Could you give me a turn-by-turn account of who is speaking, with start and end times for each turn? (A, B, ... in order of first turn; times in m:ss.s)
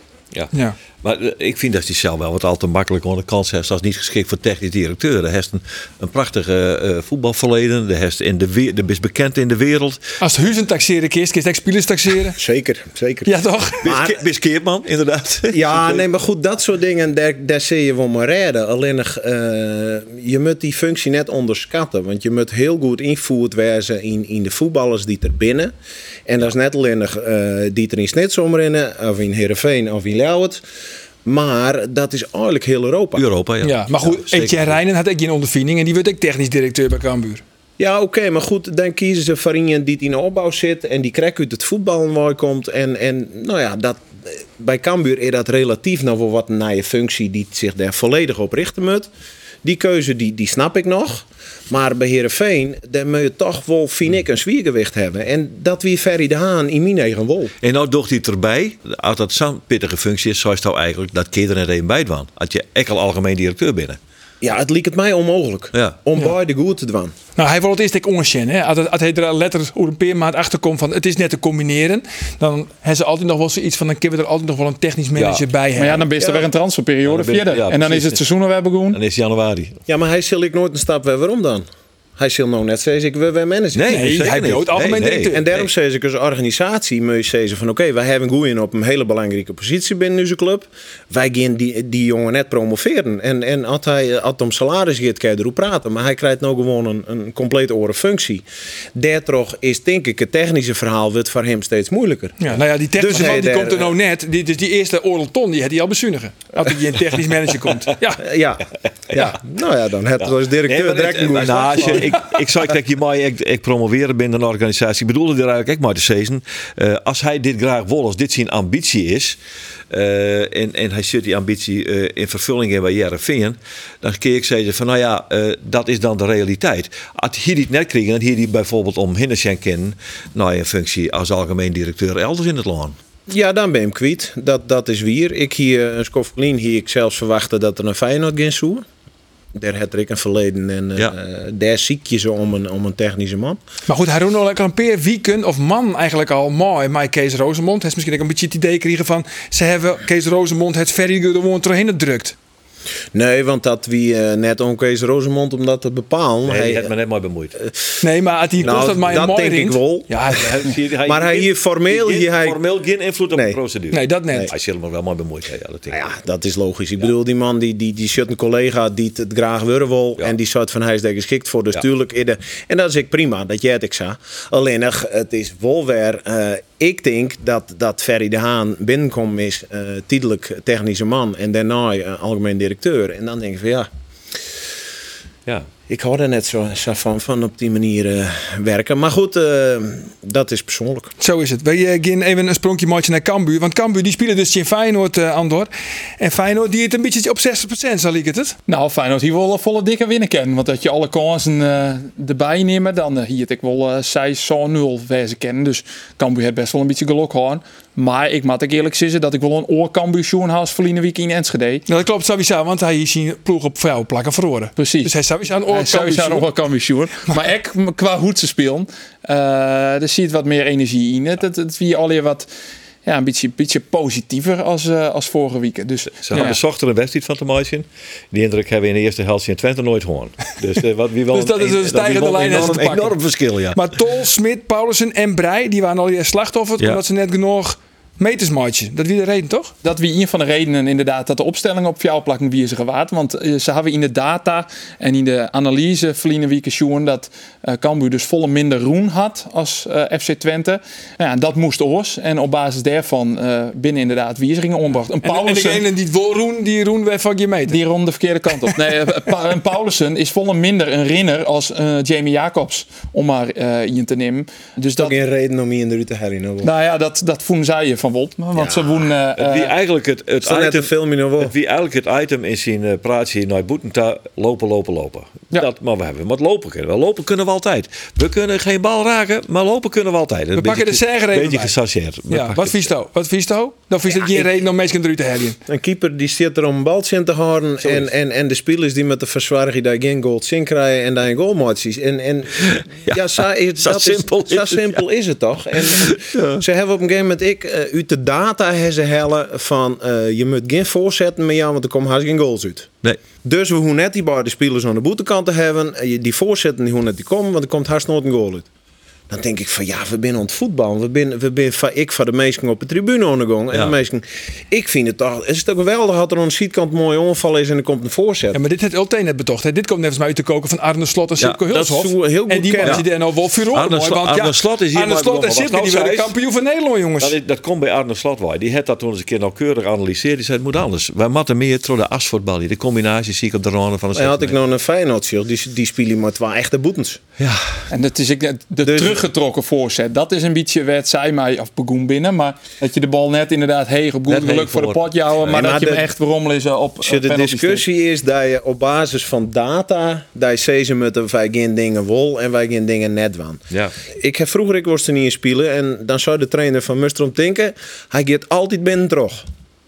0:00.3-0:10.0 A
0:10.2-0:12.4 B
0:12.4-0:14.2 C
0:13.2-0:13.8 B
0:13.8-0:16.0 A
0:15.5-0:25.7 C
0:26.3-0:30.6 C
0:31.2-0:33.2 C
0:33.2-0:34.8 A
0:33.6-0:37.4 B
0:37.8-0:49.1 C
0:49.6-0:57.5 C
0:57.6-1:04.0 A
1:04.4-1:07.1 C
1:07.4-1:16.0 B
1:15.2-1:15.4 A
1:15.8-1:19.0 D
1:16.2-1:16.4 C
1:17.0-1:18.2 A
1:18.9-1:19.8 A
1:19.9-1:21.6 C
1:22.2-1:24.1 C
1:23.7-1:25.6 A
1:23.9-1:25.4 B
1:25.3-1:42.4 C
1:42.4-1:48.2 B
1:42.9-1:44.0 C
1:48.2-1:52.2 C
1:49.1-1:49.4 A
1:50.2-1:59.4 A
1:59.9-2:13.0 A
2:13.3-2:18.8 C
2:19.5-2:23.6 C
2:23.9-2:32.3 B
2:33.1-2:36.9 C
2:36.4-2:37.6 A
2:38.0-2:40.5 B
2:38.6-2:40.1 C
2:38.6-2:39.2 A
2:40.3-2:46.0 A
2:41.0-2:42.6 C
2:43.3-2:43.6 C
2:43.9-2:44.5 B
2:45.9-3:03.9 C
3:05.9-3:11.1 C
3:11.2-3:18.6 B
3:18.7-3:31.8 D
3:31.9-3:36.5 B
3:34.8-3:35.1 D
3:35.7-3:42.5 D
3:43.0-3:46.6 D
3:46.2-3:53.8 A
3:51.3-3:53.2 B
3:53.7-3:59.7 B
3:59.8-4:15.8 D
4:15.2-4:17.8 B
4:17.7-4:25.1 D
4:25.0-4:26.7 C
4:26.6-4:29.7 D
4:28.5-4:29.1 C
4:29.4-4:42.9 A
4:30.4-4:31.5 C
4:40.5-4:41.7 B
4:42.3-4:45.6 B
4:44.1-4:44.5 C
4:45.7-5:02.9 C
4:52.6-4:55.0 A
4:55.9-4:56.6 A
5:03.4-5:08.7 C
5:09.3-5:18.6 C
5:18.5-5:27.4 B
5:21.7-5:23.0 C
5:23.7-5:26.3 A
5:27.2-5:34.6 A
5:34.1-5:37.2 C
5:37.4-5:37.7 A
5:37.9-5:47.8 D
5:38.8-5:39.2 C
5:44.3-5:45.6 A
5:45.5-5:46.1 C
5:47.0-5:59.4 C